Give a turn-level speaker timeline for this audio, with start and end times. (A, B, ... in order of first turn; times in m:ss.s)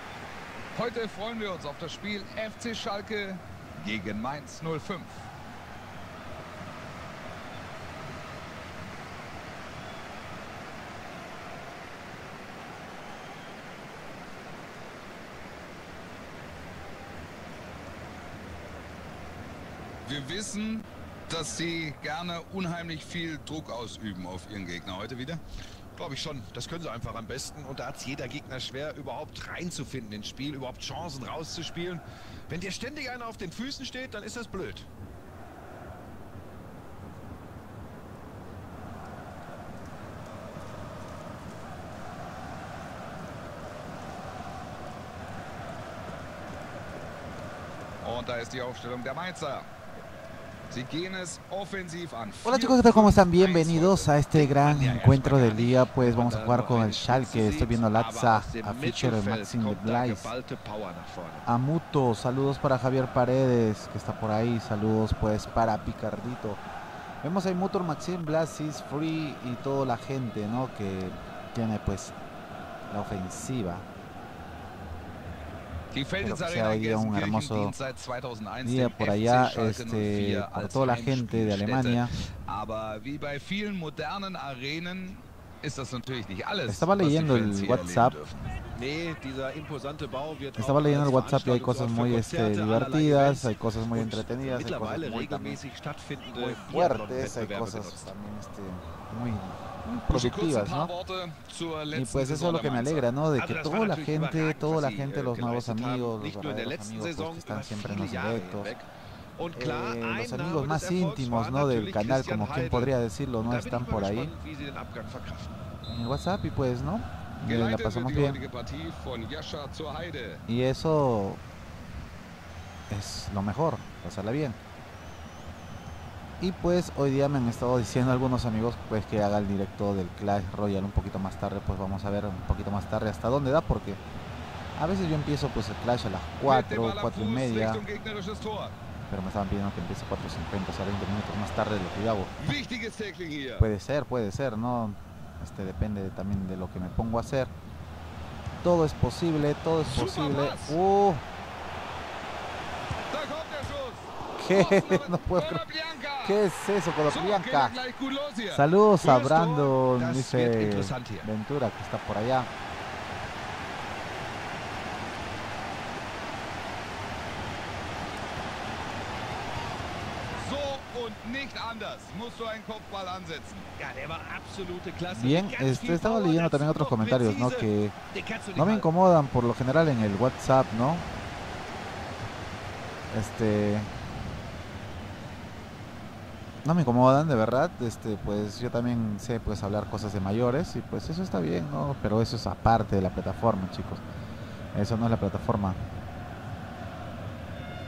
0:00.7-0:05.3 A
0:20.0-0:25.4 A
0:26.0-0:34.9 B
0:48.0-0:49.7 A
0:50.7-0:55.9 A
0:52.4-1:00.3 C
0:56.0-1:01.5 B
1:01.4-1:06.6 C
1:07.2-1:12.1 C
1:12.9-1:13.9 C
1:15.9-1:28.4 A
1:16.2-1:17.7 C
1:18.6-1:22.1 C
1:26.6-1:28.2 C
1:28.7-1:38.1 B
1:30.6-1:35.6 C
1:36.3-1:40.9 C
1:40.1-1:43.1 A
1:41.9-1:48.7 C
1:43.3-1:48.8 B
1:49.4-1:55.5 B
1:49.5-1:54.3 C
1:55.8-1:58.4 C
1:57.4-2:00.4 A
2:00.5-2:01.4 C
2:02.9-2:04.6 C
2:06.4-2:14.0 C
2:14.8-2:17.8 C
2:16.4-2:18.7 A
2:19.1-2:22.3 C
2:22.4-2:23.7 A
2:23.6-2:27.5 C
2:28.6-2:31.2 C
2:29.9-2:30.8 A
2:33.1-2:36.4 A
2:34.4-2:35.6 C
2:36.2-2:37.8 C
2:37.1-2:38.7 A
2:38.5-2:42.5 C
2:39.0-2:41.3 B
2:50.4-2:53.6 A
2:53.8-2:58.9 B
2:55.1-2:57.9 C
2:58.6-3:01.0 C
3:03.1-3:03.9 C
3:06.6-3:14.0 C
3:14.7-3:15.8 C